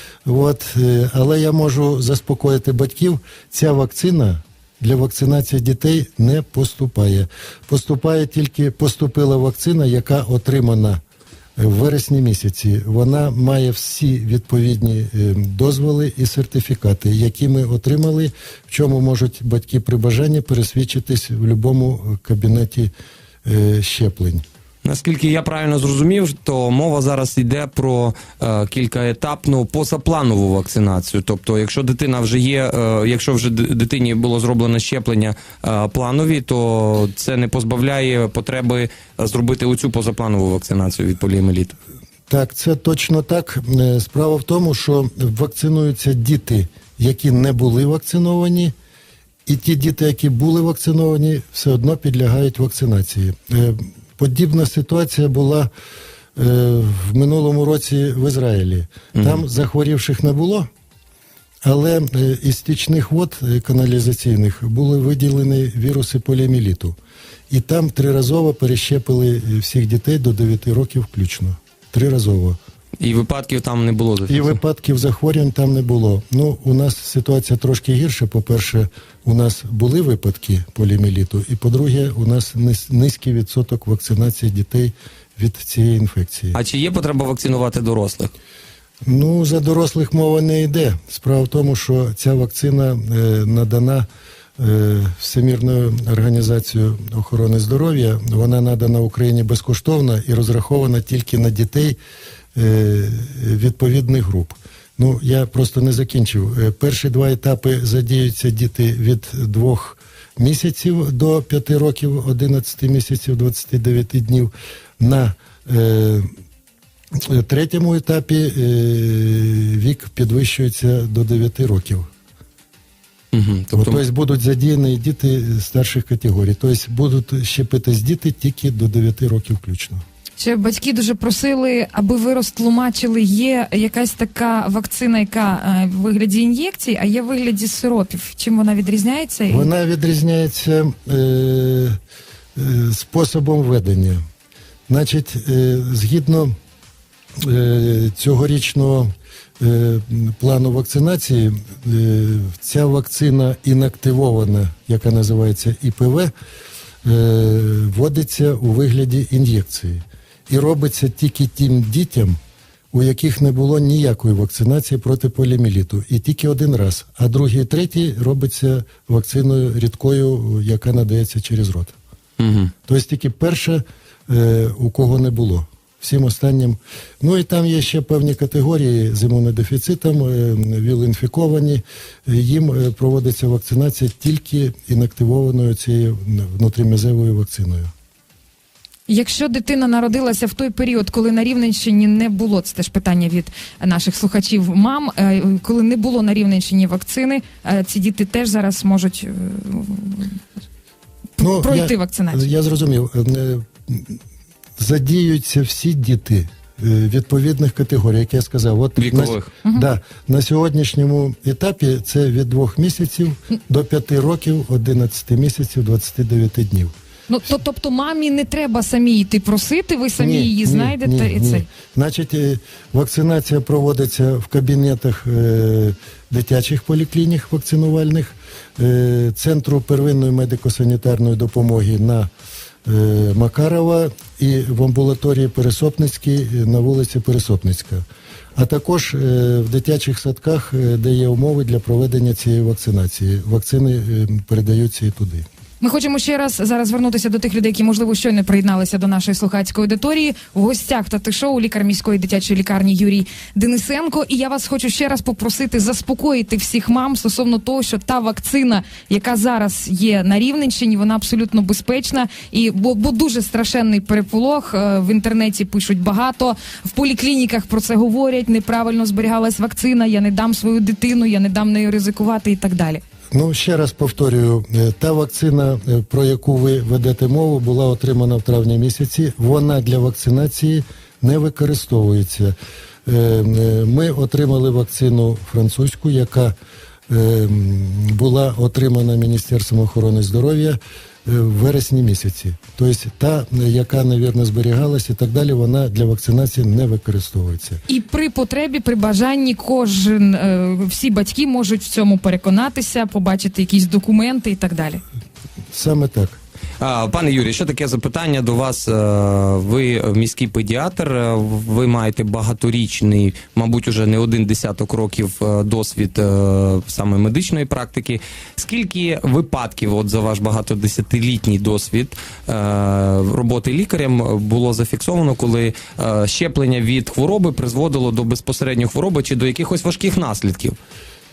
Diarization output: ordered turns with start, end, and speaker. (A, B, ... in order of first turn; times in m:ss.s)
0:00.2-0:11.0 A
0:11.6-0:22.9 A
0:23.4-0:24.4 A
0:24.8-0:41.8 B
0:42.3-0:48.7 A
0:49.4-0:55.7 A
0:56.4-1:00.7 A
0:59.2-0:59.4 B
1:01.6-1:07.0 A
1:07.5-1:12.6 A
1:13.0-1:14.6 B
1:14.3-1:26.6 A
1:26.5-1:28.3 B
1:29.0-1:34.0 A
1:34.6-1:42.0 A
1:42.5-1:56.3 A
1:57.1-2:02.1 A
2:03.3-2:04.0 B
2:03.7-2:10.0 A
2:10.4-2:19.7 C
2:19.5-2:22.0 A
2:22.6-2:24.2 A
2:24.9-2:26.5 A
2:27.4-2:36.3 A
2:37.0-2:42.4 A
2:42.9-2:51.9 A
2:52.4-2:52.7 B
2:52.9-3:07.9 A
3:09.1-3:20.4 C
3:21.4-3:22.5 C
3:21.4-3:24.2 A
3:24.8-3:36.9 A
3:29.0-3:29.5 B
3:37.3-3:41.6 C
3:40.2-3:52.3 A
3:52.8-3:58.0 A
3:58.6-4:05.4 A
4:05.8-4:33.0 C
4:33.3-4:42.5 A
4:43.0-4:46.6 A
4:47.1-4:57.8 A
4:57.9-5:05.0 C
5:05.7-5:06.4 A
5:06.8-5:30.8 B